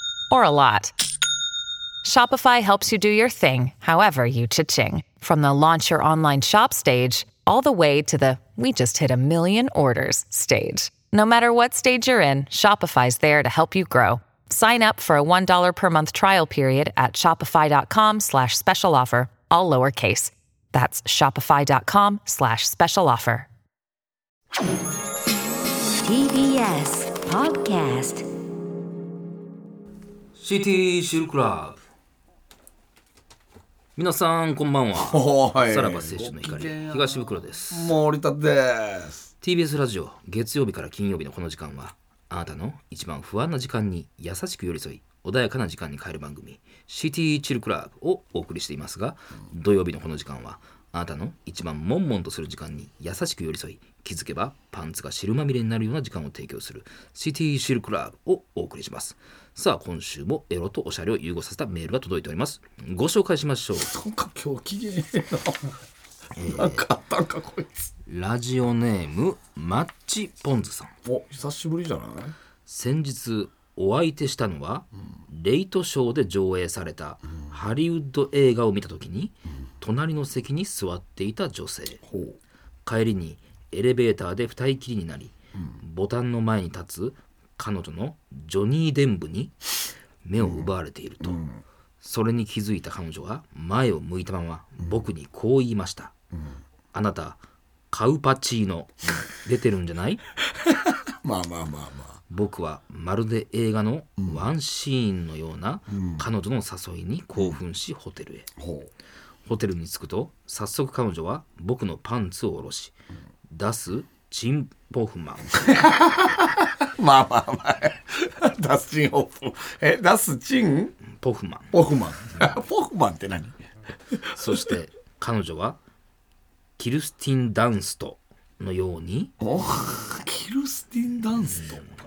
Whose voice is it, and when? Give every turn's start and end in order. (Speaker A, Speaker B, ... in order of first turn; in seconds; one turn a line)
Speaker A: 0.3-0.9
Speaker A: 2.0-23.5
Speaker B: 26.0-28.3
Speaker C: 30.4-31.8
Speaker C: 34.0-37.9
Speaker D: 35.0-37.2
Speaker D: 37.7-39.3
Speaker C: 39.4-63.9
Speaker D: 63.8-65.6
Speaker C: 66.4-66.8
Speaker D: 66.5-67.8
Speaker C: 68.1-70.9
Speaker D: 71.1-72.3
Speaker C: 72.7-82.0
Speaker D: 82.1-82.3
Speaker C: 82.8-89.5
Speaker C: 90.2-91.4
Speaker D: 90.4-90.7
Speaker C: 92.0-96.1
Speaker C: 96.9-97.4
Speaker C: 97.9-100.2
Speaker D: 100.7-102.2
Speaker C: 102.3-108.5
Speaker D: 105.9-106.2
Speaker D: 108.6-108.9
Speaker C: 109.5-112.9
Speaker C: 113.5-115.7
Speaker D: 115.7-120.9
Speaker C: 121.2-121.7
Speaker D: 121.7-123.5
Speaker C: 124.3-125.8
Speaker C: 126.8-129.3
Speaker D: 129.4-131.8
Speaker C: 131.5-131.8